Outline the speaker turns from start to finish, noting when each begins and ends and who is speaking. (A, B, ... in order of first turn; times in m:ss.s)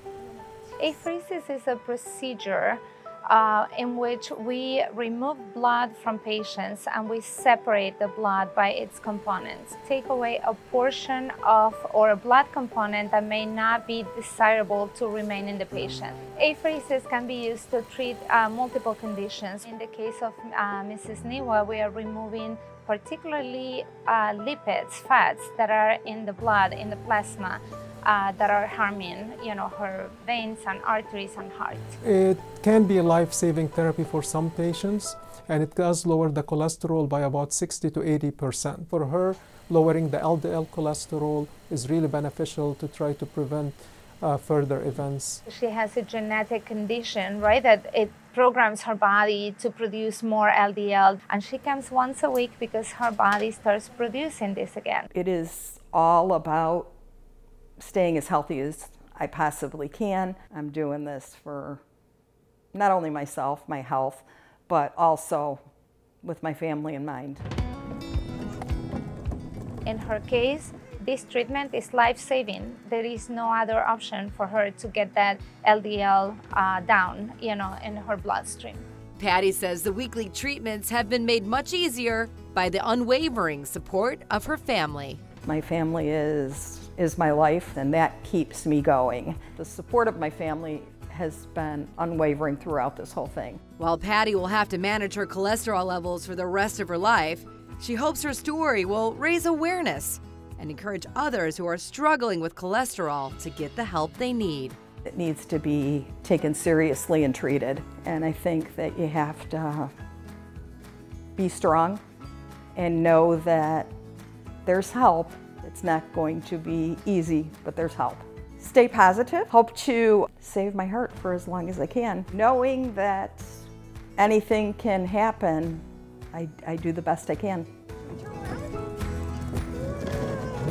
0:00.8-0:32.0 A
0:32.2-0:35.0 B
0:32.2-0:38.8 C
0:35.6-0:43.7 B
0:39.9-0:43.7 C
0:44.2-0:45.0 B
0:44.4-0:45.4 C
0:45.4-0:55.1 A
0:55.1-0:56.9 D
0:57.8-1:01.8 D
1:02.7-1:05.6 D
1:06.2-1:07.4 D
1:09.8-1:18.8 A
1:19.2-1:25.2 B
1:25.4-1:33.6 D
1:33.8-1:44.8 B
1:45.1-1:49.9 D
1:51.4-1:52.0 D
1:52.8-1:53.9 D
1:54.6-2:07.7 D